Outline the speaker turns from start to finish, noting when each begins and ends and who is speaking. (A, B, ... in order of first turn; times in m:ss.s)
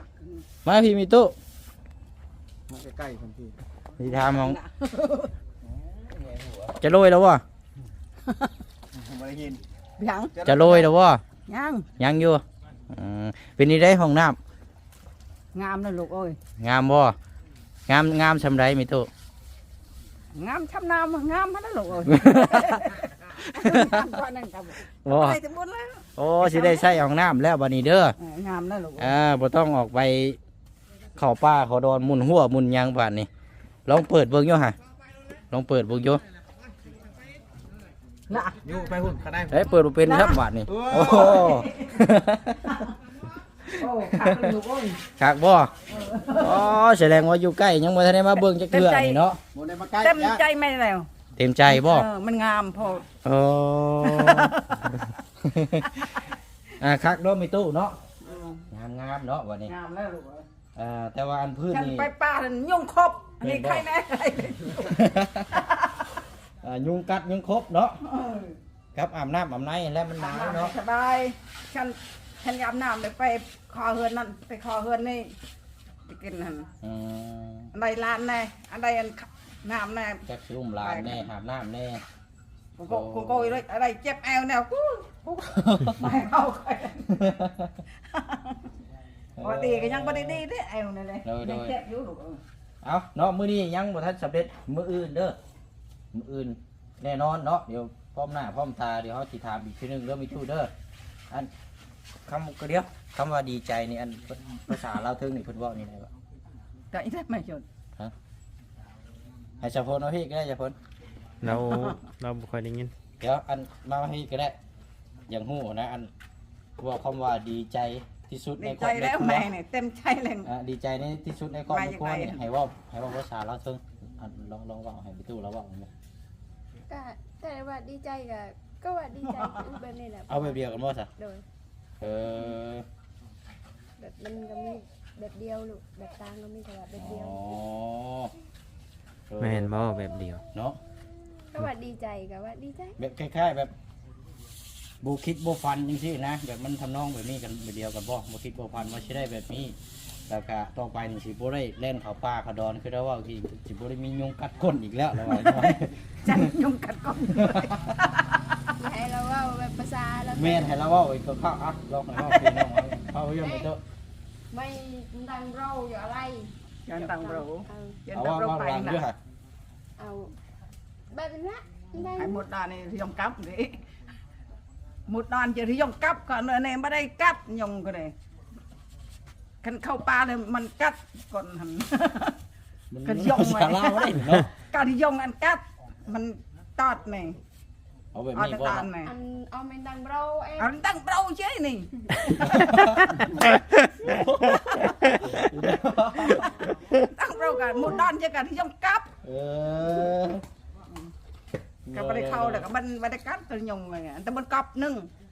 0:00.6-0:01.4 A
0:02.7-0:03.6 B
0:04.0-0:04.6 A
0:04.0-0:05.3 C
0:05.6-0:06.7 B
0:06.8-0:07.4 A
0:08.9-0:09.6 B
0:10.0-0:10.9 C
0:10.3-0:10.7 B
0:10.4-0:11.2 A
0:11.5-0:11.9 C
0:12.0-0:14.4 A
0:15.5-0:16.4 C
0:16.6-0:17.2 A
0:17.9-0:19.1 A
0:20.4-0:27.0 C
0:22.1-0:22.8 A
0:23.4-0:24.0 A
0:25.0-0:25.4 A
0:26.2-0:28.2 A
0:28.2-0:29.2 C
0:29.0-0:30.4 A
0:31.2-0:33.3 A
0:33.9-0:34.8 A
0:35.5-0:36.2 A
0:38.3-0:38.6 C
0:38.6-0:39.6 B
0:39.5-0:42.9 A
0:40.0-0:42.0 C
0:40.6-0:41.5 B
0:42.7-0:42.9 C
0:43.6-0:44.5 A
0:43.8-0:45.0 C
0:45.1-0:45.7 A
0:45.9-0:46.8 C
0:46.4-0:49.4 A
0:48.7-0:49.2 C
0:49.5-0:50.3 B
0:50.0-0:51.1 C
0:51.4-0:52.1 A
0:51.7-0:53.1 C
0:53.2-0:56.2 A
0:54.0-0:54.8 C
0:56.8-0:58.0 A
0:58.2-0:58.6 C
0:58.7-0:59.7 A
0:59.6-1:00.5 C
1:00.8-1:02.1 A
1:01.7-1:06.1 C
1:03.4-1:03.8 A
1:04.8-1:05.5 A
1:06.6-1:08.0 A
1:08.0-1:08.6 C
1:09.0-1:10.7 A
1:10.2-1:15.4 C
1:16.1-1:16.7 C
1:16.8-1:17.7 A
1:17.8-1:20.2 C
1:20.3-1:22.0 A
1:20.8-1:21.3 C
1:22.8-1:25.4 C
1:22.9-1:23.6 A
1:25.4-1:26.0 A
1:26.0-1:27.2 C
1:27.1-1:27.8 A
1:28.1-1:28.7 C
1:29.4-1:30.4 A
1:29.4-1:32.4 C
1:31.2-1:31.8 A
1:32.8-1:35.4 A
1:36.1-1:40.7 A
1:42.3-1:46.1 A
1:46.9-1:47.6 C
1:49.6-1:50.8 A
1:51.4-1:52.9 D
1:53.2-1:54.6 A
1:55.3-1:56.1 A
1:56.8-1:59.5 A
1:58.6-2:00.5 C
2:00.4-2:05.9 A
2:01.7-2:02.4 C
2:06.9-2:11.4 E
2:10.3-2:11.1 A
2:12.0-2:12.9 A
2:14.0-2:17.6 E
2:17.0-2:18.3 A
2:19.3-2:19.8 A
2:19.4-2:20.4 D
2:20.5-2:20.8 A
2:21.5-2:23.0 E
2:23.0-2:23.7 A
2:25.0-2:29.8 A
2:30.3-2:36.5 A
2:35.4-2:38.6 C
2:37.3-2:38.0 A
2:38.8-2:40.7 E
2:40.4-2:43.8 A
2:43.4-2:43.7 E
2:44.5-2:48.0 E
2:46.9-2:49.1 C
2:48.1-2:49.2 A
2:50.0-2:50.3 E
2:51.1-2:52.4 E
2:52.2-2:53.8 C
2:55.1-2:58.1 C
2:59.6-3:02.4 C
3:02.9-3:04.5 A
3:03.0-3:07.4 C
3:08.1-3:08.9 A
3:08.4-3:09.1 C
3:09.0-3:10.7 E
3:10.6-3:13.2 C
3:12.4-3:13.4 A
3:14.0-3:16.9 A
3:17.0-3:19.1 C
3:19.2-3:20.4 A
3:21.9-3:22.7 A
3:21.9-3:25.1 C